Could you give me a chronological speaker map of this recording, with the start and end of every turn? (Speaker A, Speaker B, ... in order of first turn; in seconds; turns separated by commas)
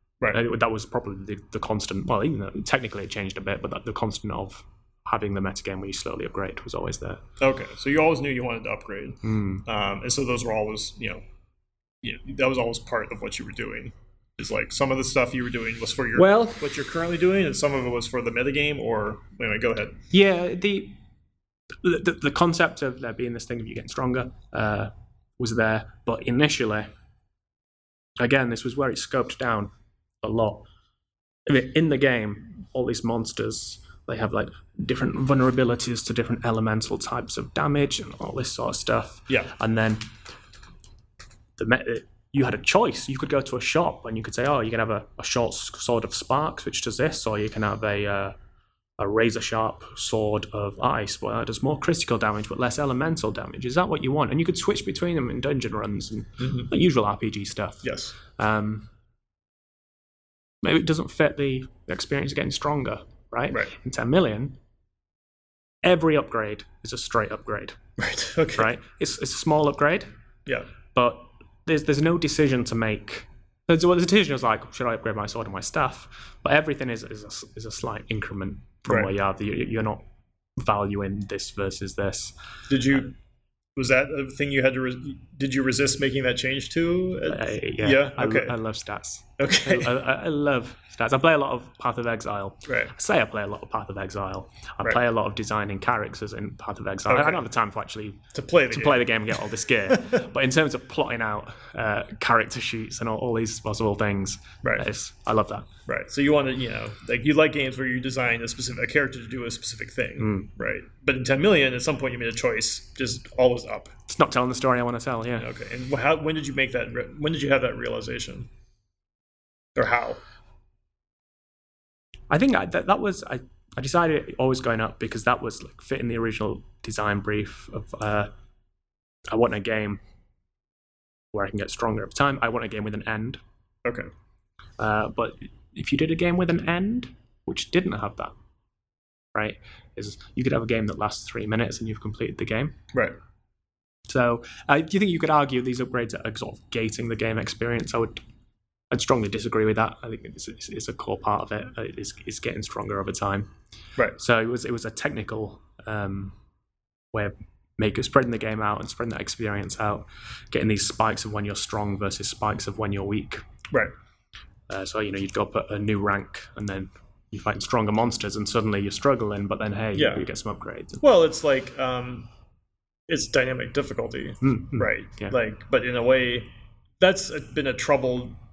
Speaker A: 0.3-7.2, Speaker B: 7.4-11.2, Speaker A: 9.2-9.6, Speaker B: 12.0-20.0, Speaker A: 16.1-16.6, Speaker A: 20.1-21.0, Speaker A: 21.8-26.9, Speaker A: 28.2-30.6, Speaker A: 31.4-40.1, Speaker A: 41.6-48.3, Speaker A: 49.0-58.9, Speaker B: 56.4-56.7, Speaker B: 57.8-58.1, Speaker A: 60.6-64.6, Speaker A: 65.8-67.8, Speaker B: 68.0-68.7, Speaker A: 68.5-70.1, Speaker A: 70.9-80.0, Speaker A: 80.6-82.3, Speaker B: 82.7-83.1, Speaker B: 83.8-88.5, Speaker A: 87.3-105.7, Speaker B: 89.4-90.0, Speaker B: 92.7-92.9, Speaker B: 97.1-97.4, Speaker B: 98.3-100.2, Speaker B: 105.9-113.9, Speaker A: 110.2-110.5, Speaker A: 114.1-115.5, Speaker B: 115.4-118.5, Speaker B: 119.7-120.2, Speaker A: 122.3-128.3, Speaker A: 129.3-130.0, Speaker A: 131.3-133.4, Speaker B: 133.8-134.1, Speaker A: 134.8-138.3, Speaker A: 139.3-142.8, Speaker A: 144.1-148.2, Speaker A: 148.9-153.5, Speaker A: 154.1-156.3, Speaker A: 157.1-163.4, Speaker A: 164.7-171.0, Speaker B: 169.9-170.2, Speaker B: 171.0-172.3, Speaker B: 173.1-178.4, Speaker A: 174.4-175.3